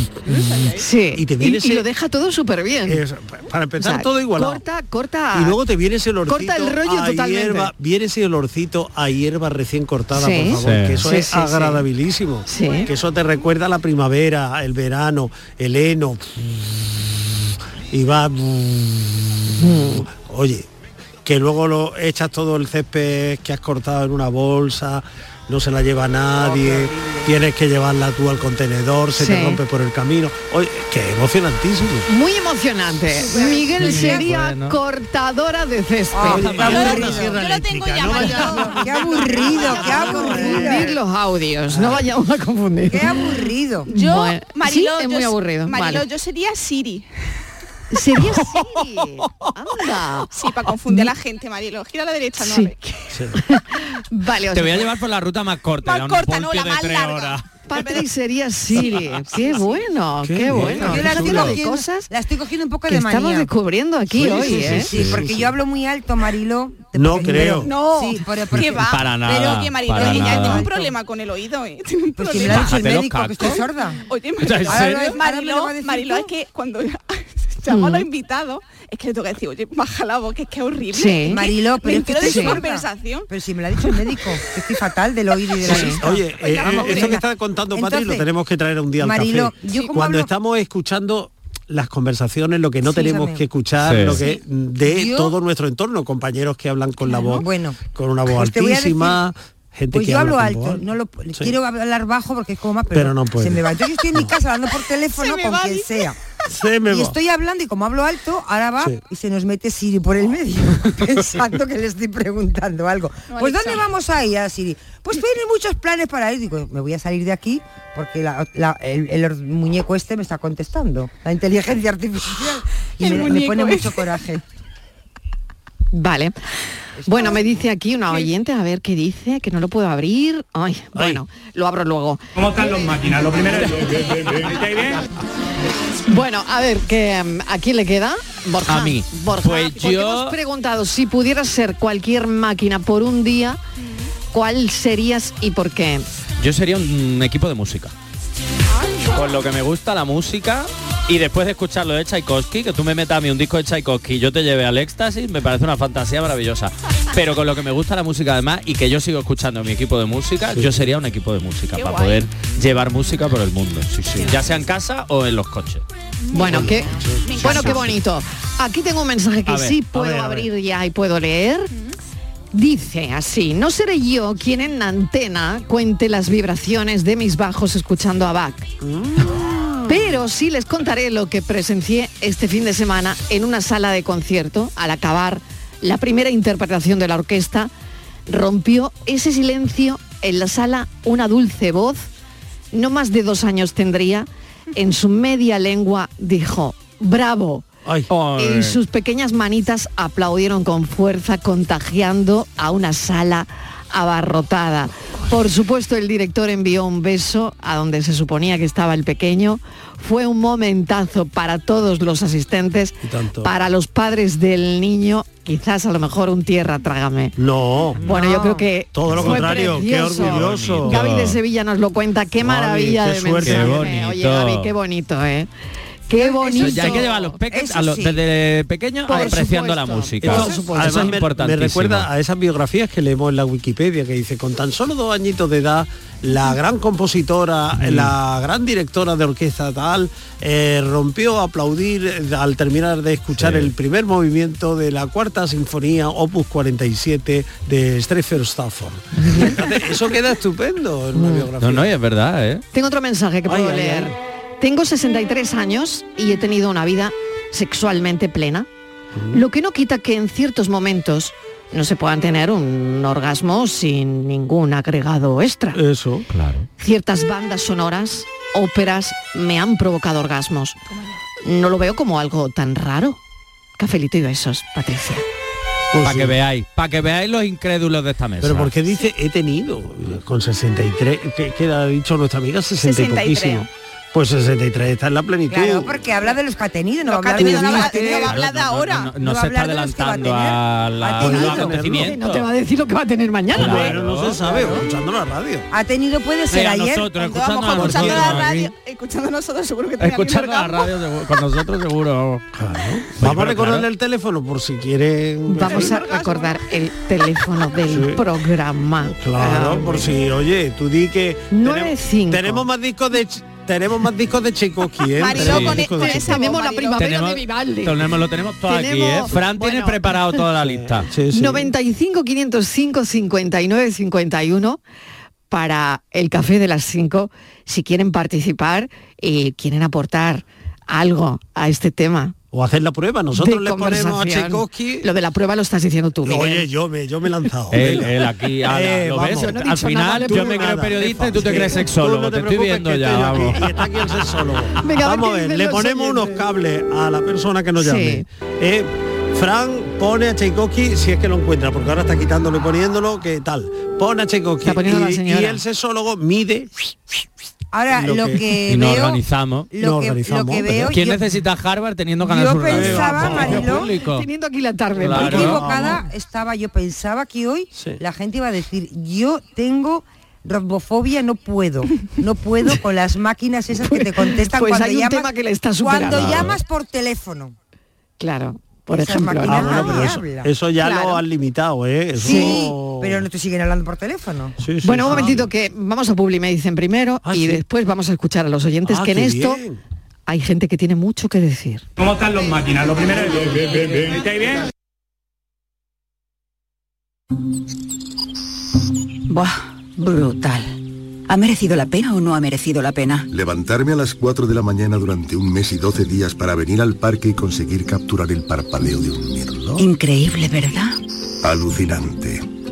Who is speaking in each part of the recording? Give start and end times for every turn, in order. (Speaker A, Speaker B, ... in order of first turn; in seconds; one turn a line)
Speaker A: 0.3-0.8
Speaker B: 0.7-3.0
Speaker C: 1.1-1.9
Speaker C: 2.9-4.6
Speaker B: 3.8-5.6
Speaker C: 5.3-20.7
Speaker B: 6.3-7.7
Speaker B: 10.1-11.8
Speaker D: 10.6-11.0
Speaker B: 12.5-12.9
Speaker A: 12.5-13.5
Speaker B: 19.6-20.1
Speaker C: 21.2-32.1
Speaker E: 26.4-27.2
Speaker B: 29.2-29.6
Speaker B: 32.1-37.1
Speaker A: 33.2-33.7
Speaker E: 33.3-34.3
Speaker D: 33.8-34.8
Speaker E: 36.1-37.4
Speaker D: 36.3-37.3
Speaker C: 36.3-40.9
Speaker A: 36.7-40.4
Speaker E: 38.2-41.0
Speaker B: 39.9-43.2
Speaker C: 41.7-42.1
Speaker E: 42.9-43.9
Speaker B: 43.9-46.0
Speaker A: 43.9-47.1
Speaker B: 47.9-50.3
Speaker A: 50.3-53.2
Speaker B: 52.4-52.7
Speaker C: 53.1-53.4
Speaker B: 53.4-54.9
Speaker D: 54.5-57.5
Speaker A: 55.8-58.1
Speaker B: 57.7-62.1
Speaker A: 58.7-59.9
Speaker C: 60.2-61.5
Speaker D: 60.5-61.5
Speaker E: 60.8-63.5
Speaker B: 62.9-64.9
Speaker E: 64.1-70.9
Speaker C: 64.2-65.5
Speaker C: 66.9-67.7
Speaker A: 67.5-72.8
Speaker D: 68.6-70.7
Speaker E: 72.2-74.0
Speaker D: 72.4-73.7
Speaker A: 74.1-83.3
Speaker D: 74.4-75.2
Speaker E: 74.7-76.3
Speaker B: 77.7-78.1
Speaker B: 80.9-81.5
Speaker E: 81.3-88.3
Speaker B: 82.2-82.6
Speaker C: 85.7-100.8
Speaker B: 85.7-86.0
Speaker A: 85.8-87.2
Speaker E: 89.0-90.3
Speaker A: 89.6-90.0
Speaker E: 92.8-93.4
Speaker D: 93.8-94.2
Speaker E: 94.8-95.3
Speaker A: 97.1-97.4
Speaker E: 97.4-99.2
Speaker E: 99.9-106.2
Speaker C: 102.9-104.3
Speaker A: 105.2-105.8
Speaker C: 106.5-107.2
Speaker E: 106.9-124.4
Speaker A: 113.3-113.9
Speaker A: 123.0-124.2
Speaker B: 125.9-126.3
Speaker E: 127.0-127.5
Speaker B: 127.0-132.2
Speaker C: 130.9-131.2
Speaker F: 132.4-135.0
Speaker B: 136.1-143.6
Speaker D: 138.7-140.4
Speaker A: 143.8-144.1
Speaker B: 144.3-146.1
Speaker D: 146.4-147.9
Speaker A: 148.7-149.3
Speaker D: 149.1-165.8
Speaker A: 161.7-162.3
Speaker A: 166.2-167.9
Speaker B: 166.3-171.7
Speaker C: 166.5-167.8
Speaker D: 169.5-169.9
Speaker C: 169.9-170.5
Speaker A: 171.7-172.0
Speaker B: 172.5-178.7
Speaker C: 178.8-180.2
Speaker B: 179.9-187.7
Speaker B: 188.3-192.1
Speaker B: 192.7-197.7
Speaker C: 197.8-198.1
Speaker D: 198.1-198.8
Speaker B: 198.4-217.4
Speaker C: 213.0-213.5
Speaker C: 217.4-218.0
Speaker B: 218.0-225.5
Speaker E: 218.2-218.6
Speaker C: 218.9-221.1
Speaker D: 219.1-221.4
Speaker C: 222.4-223.9
Speaker D: 223.4-224.7
Speaker B: 226.1-227.3
Speaker E: 226.1-228.2
Speaker D: 226.5-232.1
Speaker B: 229.1-231.1
Speaker C: 230.2-251.9
Speaker D: 237.8-238.1
Speaker D: 243.3-243.7
Speaker B: 249.2-249.6
Speaker B: 251.2-251.5
Speaker D: 251.6-252.6
Speaker B: 252.7-258.7
Speaker C: 253.5-254.2
Speaker C: 259.1-259.4
Speaker B: 259.3-265.8
Speaker C: 265.7-266.3
Speaker D: 266.3-266.7
Speaker B: 266.8-270.8
Speaker A: 270.9-271.2
Speaker B: 271.4-273.2
Speaker B: 273.8-275.2
Speaker C: 275.9-276.4
Speaker D: 276.0-278.7
Speaker C: 278.4-286.0
Speaker A: 282.8-283.7
Speaker E: 285.5-288.4
Speaker A: 287.1-289.1
Speaker C: 287.5-288.2
Speaker D: 287.5-292.5
Speaker E: 289.2-291.8
Speaker C: 291.2-292.2
Speaker B: 291.4-293.9
Speaker C: 293.5-295.7
Speaker D: 293.5-294.4
Speaker E: 294.4-294.9
Speaker E: 295.7-297.2
Speaker D: 296.5-298.7
Speaker A: 297.2-300.9
Speaker C: 297.8-298.4
Speaker D: 300.0-302.4
Speaker C: 302.5-306.0
Speaker D: 303.2-303.9
Speaker B: 305.5-310.1
Speaker A: 305.6-306.6
Speaker C: 307.9-308.2
Speaker C: 309.0-316.4
Speaker B: 311.5-312.7
Speaker A: 315.2-317.1
Speaker D: 315.3-315.9
Speaker B: 315.4-318.0
Speaker D: 316.9-321.1
Speaker B: 318.7-320.1
Speaker C: 320.6-321.7
Speaker B: 321.3-324.8
Speaker B: 325.5-332.4
Speaker C: 332.5-335.1
Speaker B: 333.4-336.7
Speaker C: 336.2-339.6
Speaker D: 337.7-344.2
Speaker B: 339.4-340.7
Speaker C: 340.2-357.0
Speaker B: 344.8-346.4
Speaker B: 347.8-348.2
Speaker B: 354.6-355.6
Speaker E: 357.7-359.2
Speaker C: 357.9-358.4
Speaker D: 358.7-359.7
Speaker E: 359.7-361.2
Speaker C: 359.8-361.0
Speaker D: 360.9-364.3
Speaker E: 362.2-363.9
Speaker C: 362.7-363.8
Speaker B: 363.9-365.6
Speaker C: 365.0-366.1
Speaker D: 365.0-365.6
Speaker E: 365.1-377.5
Speaker B: 373.9-376.5
Speaker D: 376.1-376.6
Speaker B: 378.2-380.1
Speaker E: 378.9-380.5
Speaker C: 379.4-383.3
Speaker A: 380.8-381.2
Speaker E: 382.2-384.6
Speaker B: 382.2-382.6
Speaker C: 384.6-385.5
Speaker B: 384.8-389.6
Speaker C: 387.2-387.6
Speaker C: 388.9-389.8
Speaker B: 390.3-391.8
Speaker F: 392.0-394.7
Speaker G: 401.3-403.2
Speaker H: 403.3-409.9
Speaker G: 409.8-410.1
Speaker H: 411.4-412.4